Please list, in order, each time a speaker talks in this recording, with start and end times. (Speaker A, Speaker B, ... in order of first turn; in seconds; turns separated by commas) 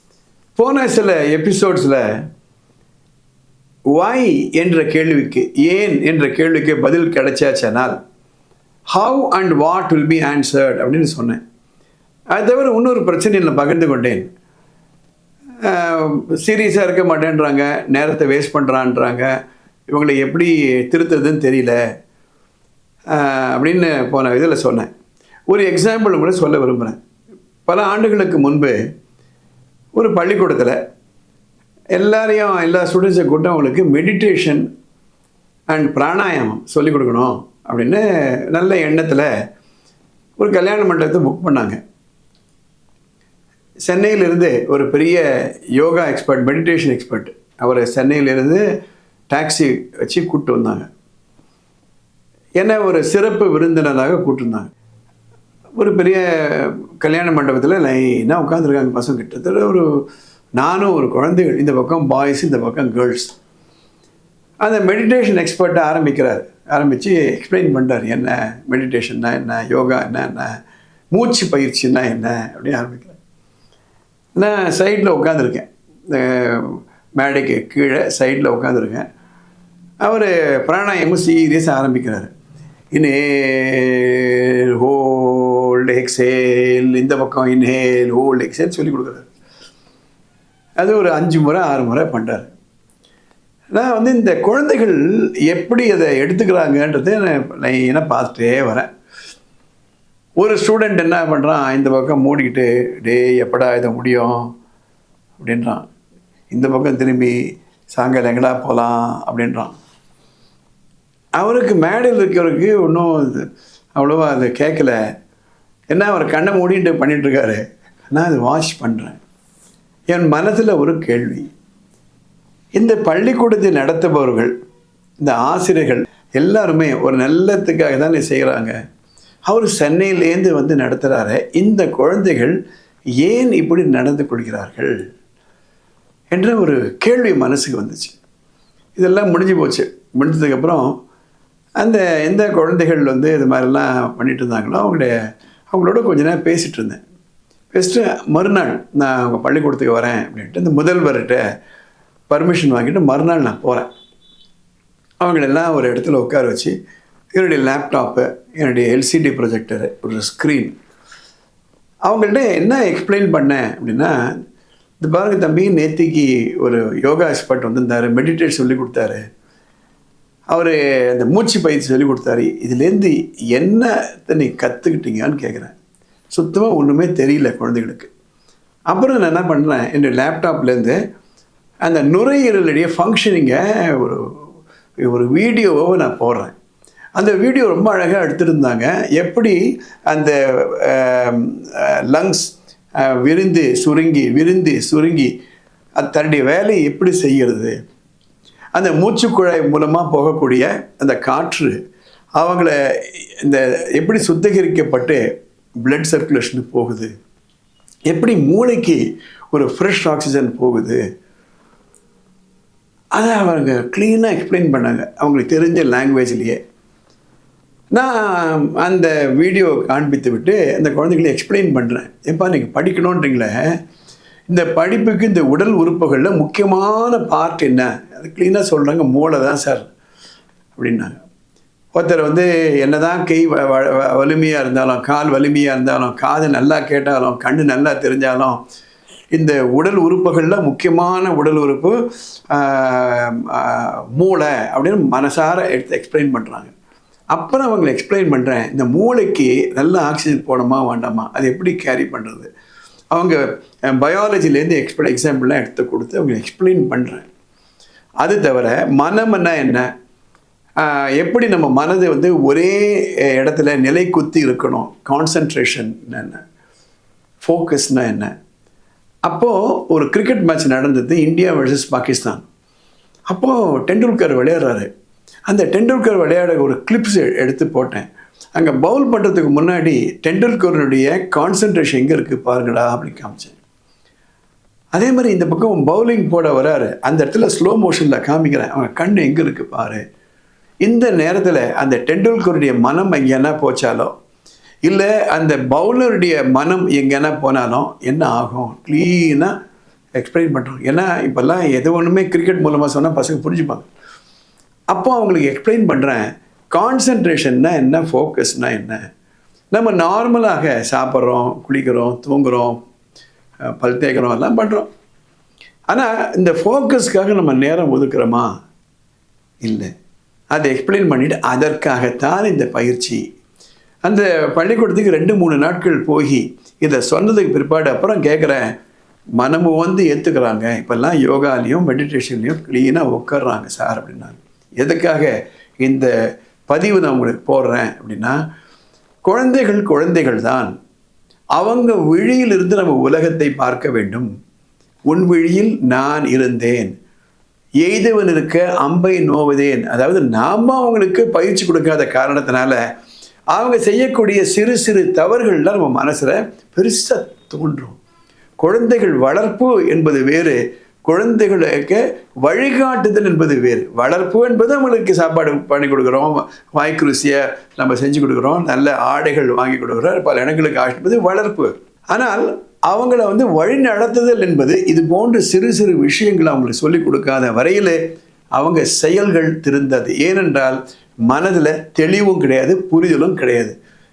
Speaker A: 0.6-2.0, Speaker A: 3.9-8.0, Speaker A: 8.9-11.4, Speaker A: 12.3-14.3, Speaker A: 15.6-19.3, Speaker A: 19.9-21.8, Speaker A: 23.1-24.9, Speaker A: 25.5-27.0, Speaker A: 27.7-28.8, Speaker A: 29.9-30.8, Speaker A: 32.0-34.6, Speaker A: 35.7-39.3, Speaker A: 40.4-41.8, Speaker A: 43.9-45.2, Speaker A: 45.8-48.6, Speaker A: 49.3-50.9, Speaker A: 52.6-54.7, Speaker A: 55.8-59.9, Speaker A: 60.6-63.3, Speaker A: 64.6-70.5, Speaker A: 71.1-73.2, Speaker A: 74.3-79.0, Speaker A: 80.0-82.3, Speaker A: 82.9-89.3, Speaker A: 90.8-92.5, Speaker A: 93.7-98.9, Speaker A: 100.4-104.5, Speaker A: 105.4-105.8, Speaker A: 106.5-107.3, Speaker A: 107.9-109.7, Speaker A: 111.4-115.0, Speaker A: 115.9-117.6, Speaker A: 118.1-119.2, Speaker A: 120.1-121.5, Speaker A: 122.8-124.5, Speaker A: 125.2-128.8, Speaker A: 129.5-132.6, Speaker A: 133.2-134.9, Speaker A: 136.3-138.2, Speaker A: 138.9-140.9, Speaker A: 141.8-145.1, Speaker A: 145.7-147.0, Speaker A: 147.7-151.4, Speaker A: 152.3-153.9, Speaker A: 155.2-156.7, Speaker A: 157.3-160.8, Speaker A: 162.1-164.1, Speaker A: 165.0-169.2, Speaker A: 170.5-175.7, Speaker A: 176.3-178.1, Speaker A: 178.9-181.0, Speaker A: 181.8-184.2, Speaker A: 185.0-186.5, Speaker A: 187.2-195.3, Speaker A: 196.0-197.8, Speaker A: 198.8-201.8, Speaker A: 202.4-205.2, Speaker A: 205.8-207.1, Speaker A: 208.1-209.0, Speaker A: 209.5-211.0, Speaker A: 213.2-216.6, Speaker A: 217.9-223.7, Speaker A: 224.5-229.9, Speaker A: 230.8-231.1, Speaker A: 231.9-238.6, Speaker A: 239.3-246.7, Speaker A: 247.3-252.5, Speaker A: 253.1-257.3, Speaker A: 258.2-259.9, Speaker A: 260.8-266.4, Speaker A: 267.4-268.3, Speaker A: 269.2-272.4, Speaker A: 273.3-274.9, Speaker A: 275.5-283.6, Speaker A: 284.9-290.0, Speaker A: 290.8-294.1, Speaker A: 294.8-299.5, Speaker A: 300.2-303.9, Speaker A: 304.9-306.2, Speaker A: 306.7-309.0, Speaker A: 309.7-312.8, Speaker A: 313.8-314.9, Speaker A: 315.9-318.5, Speaker A: 319.6-319.9, Speaker A: 320.5-323.2, Speaker A: 324.1-328.7, Speaker A: 329.4-336.1, Speaker A: 336.7-338.4, Speaker A: 339.2-340.7, Speaker A: 341.6-344.3, Speaker A: 345.1-346.9, Speaker A: 347.8-352.8, Speaker A: 353.5-358.0, Speaker A: 358.6-378.0, Speaker A: 378.6-383.8